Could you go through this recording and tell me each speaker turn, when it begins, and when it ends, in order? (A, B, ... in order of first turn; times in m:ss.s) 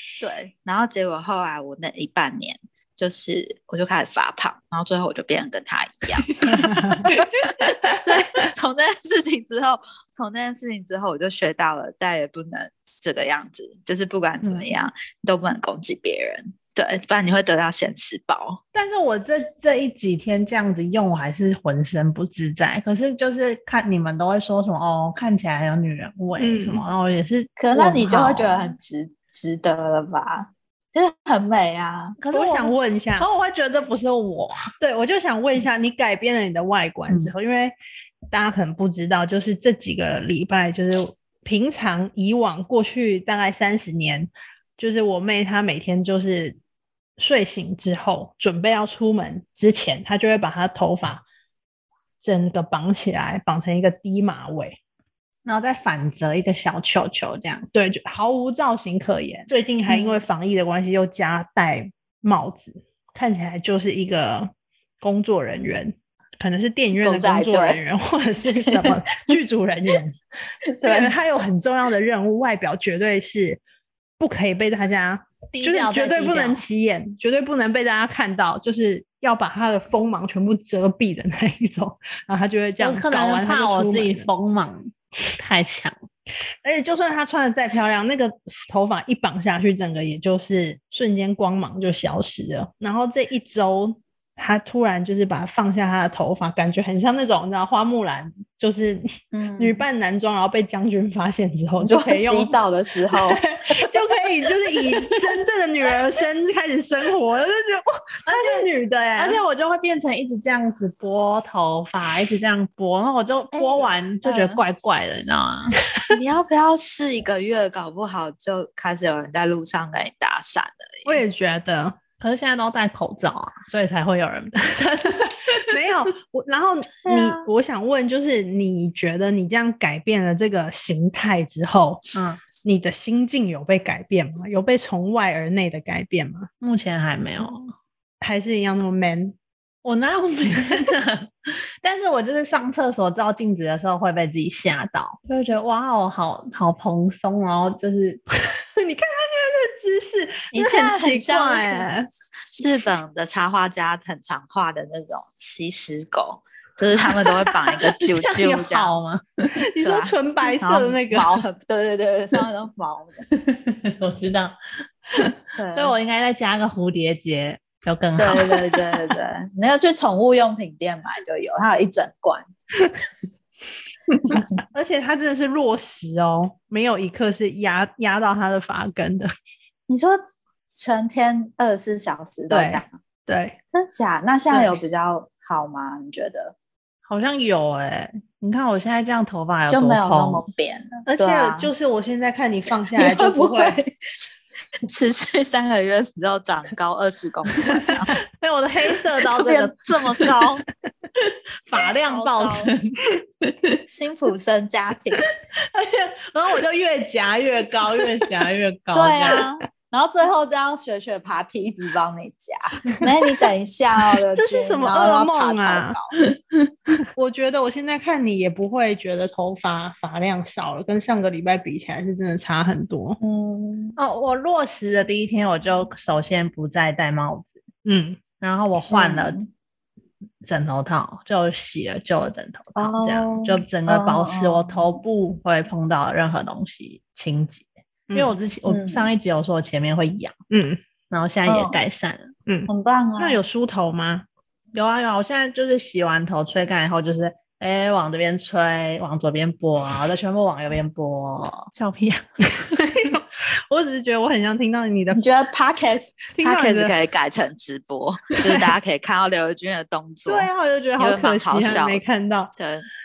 0:00.2-0:18.6 A
0:06.5-0:07.0 B
0:14.4-0:14.7 C
0:18.7-0:28.8 C
0:26.4-0:26.8 B
0:27.6-0:32.2 A
0:32.2-0:34.7 C
0:32.3-0:33.3 B
0:34.8-0:37.7 B
0:38.3-0:46.6 B
0:47.2-0:51.2 B
0:52.2-0:54.8 B
0:55.4-0:57.7 C
0:57.7-1:04.5 B
0:59.9-1:00.2 A
1:05.0-1:10.2 B
1:07.0-1:07.8 A
1:10.8-1:11.1 A
1:10.8-1:13.6 B
1:14.2-1:24.3 B
1:15.5-1:16.6 C
1:22.8-1:26.0 C
1:26.6-1:39.1 B
1:39.3-1:39.8 A
1:39.6-1:42.6 B
1:41.8-1:43.8 A
1:43.3-1:49.4 B
1:48.2-1:55.8 C
1:53.5-1:54.6 A
1:56.1-2:01.2 A
2:01.0-2:02.0 B
2:02.2-2:04.9 C
2:04.7-2:12.0 B
2:07.1-2:07.4 A
2:12.1-2:12.4 C
2:12.6-2:16.5 B
2:16.6-2:17.7 C
2:18.2-2:19.3 B
2:19.8-2:28.2 C
2:28.4-2:32.1 B
2:30.5-2:31.9 A
2:32.6-2:38.9 A
2:38.1-2:39.2 C
2:39.7-2:41.4 B
2:39.8-2:43.2 A
2:43.5-2:44.6 C
2:45.6-2:45.9 A
2:45.7-2:48.7 C
2:48.2-2:52.5 A
2:54.6-2:59.3 B
2:59.9-3:02.9 A
3:02.5-3:03.6 B
3:03.7-3:06.5 A
3:07.0-3:10.4 C
3:09.7-3:11.7 A
3:11.0-3:13.8 B
3:13.0-3:13.9 A
3:14.8-3:18.1 A
3:18.3-3:19.8 C
3:19.2-3:20.6 A
3:21.7-3:22.8 C
3:21.8-3:22.7 A
3:23.8-3:25.2 A
3:25.7-3:29.4 C
3:28.9-3:36.1 A
3:34.4-3:36.0 B
3:37.0-3:43.2 B
3:43.2-3:44.0 A
3:44.0-3:47.6 C
3:47.8-3:48.2 B
3:48.4-3:49.4 C
3:48.9-3:49.4 A
3:50.4-4:00.3 C
3:52.8-3:54.8 A
3:58.6-3:59.1 A
4:00.5-4:00.8 B
4:01.1-4:02.3 C
4:01.5-4:01.8 A
4:02.5-4:04.2 B
4:02.7-4:03.4 A
4:04.7-4:12.3 C
4:12.5-4:15.2 B
4:15.1-4:22.0 A
4:16.3-4:16.9 B
4:20.3-4:22.5 B
4:22.6-4:22.9 A